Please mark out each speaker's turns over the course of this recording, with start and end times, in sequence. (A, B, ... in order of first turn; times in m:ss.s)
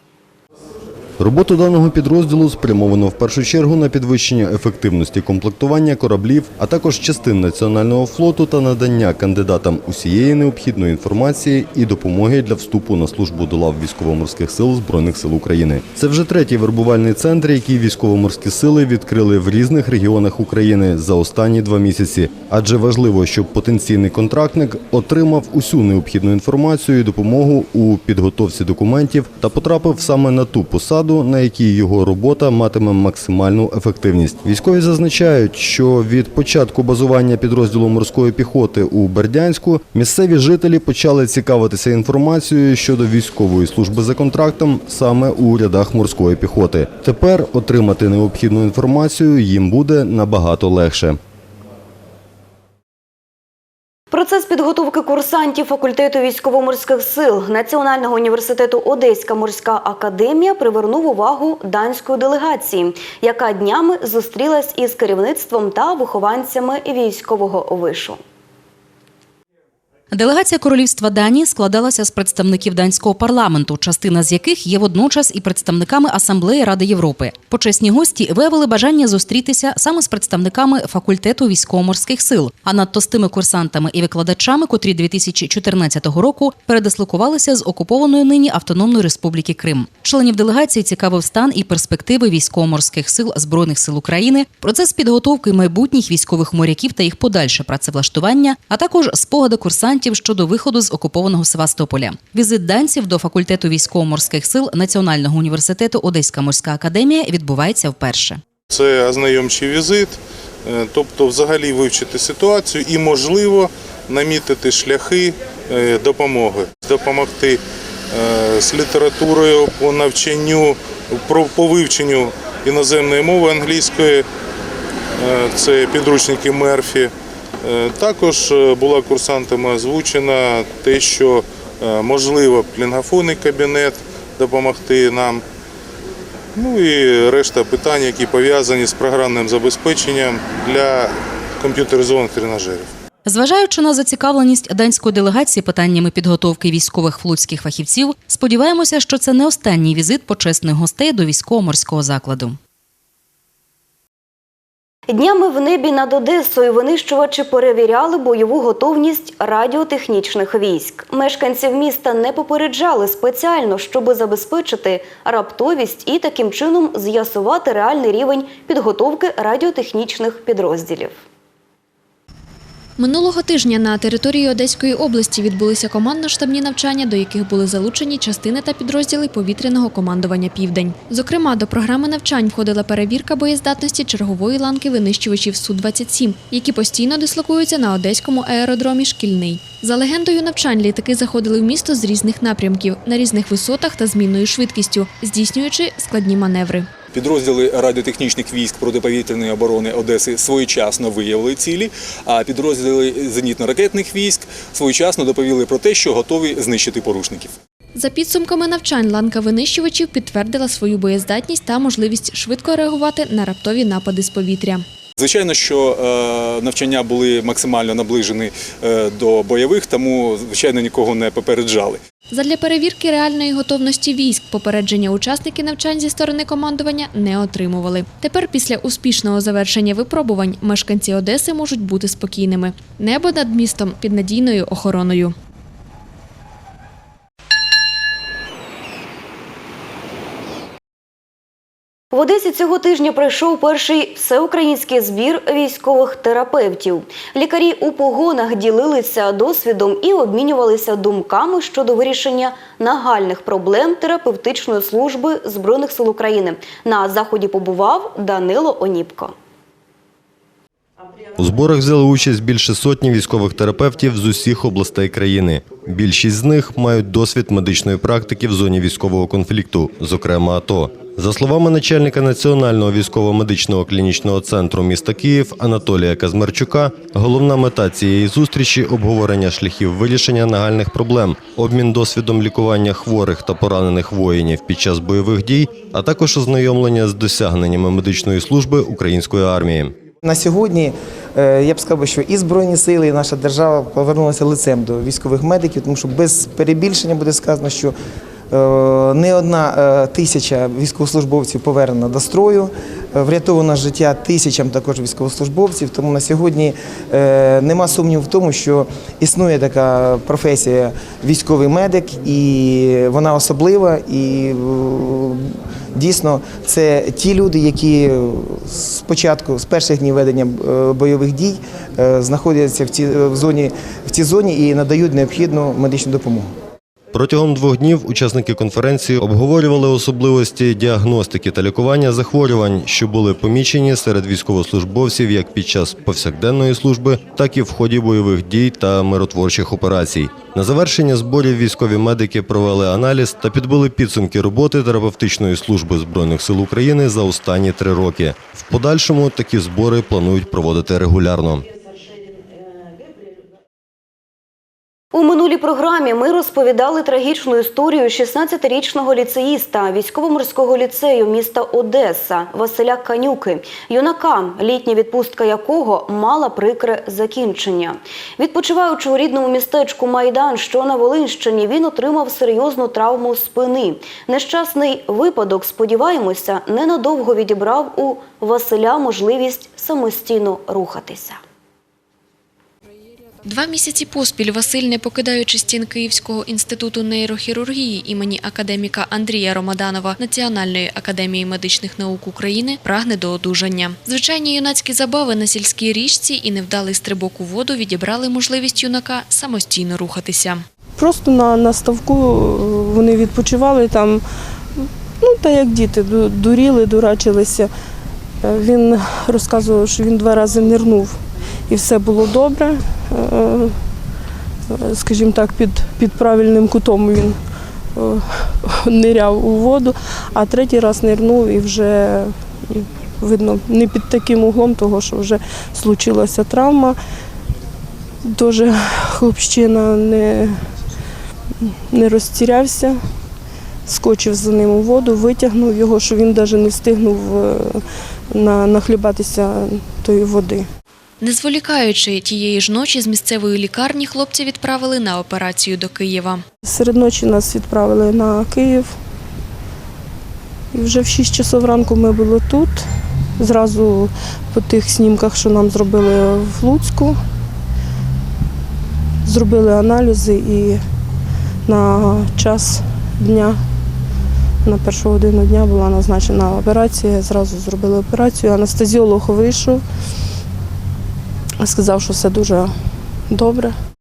0:01.2-0:51.2 A
0:54.1-1:08.2 B
1:10.1-1:48.4 C
1:48.7-2:04.3 D
2:05.2-2:07.1 D
2:07.6-2:15.4 D
2:16.6-2:22.9 D
2:23.3-2:32.6 C
2:35.1-2:51.2 B
2:53.0-3:16.9 E
3:17.1-3:27.6 F
3:28.0-3:34.8 E
3:35.2-3:42.0 F
3:42.3-3:55.4 E
4:02.1-4:19.3 B
4:21.4-4:50.0 A
4:50.2-4:57.9 G
4:58.5-5:26.5 G
5:27.1-5:51.6 A
5:55.1-6:21.4 B
6:23.4-6:40.6 E
6:41.0-6:44.2 H
6:44.8-6:47.7 H
6:48.4-6:51.2 H
6:51.7-6:53.8 H
6:54.7-6:57.4 H
6:58.0-7:07.0 H
7:08.2-7:10.6 H
7:11.6-7:13.0 H
7:13.9-7:20.7 H
7:21.2-7:26.4 E
7:26.6-7:29.0 H
7:30.7-7:32.9 H
7:33.4-7:37.2 H
7:39.2-7:40.8 H
7:41.7-7:43.6 H
7:44.6-7:49.8 H
7:51.6-7:52.7 H
7:53.3-7:53.8 H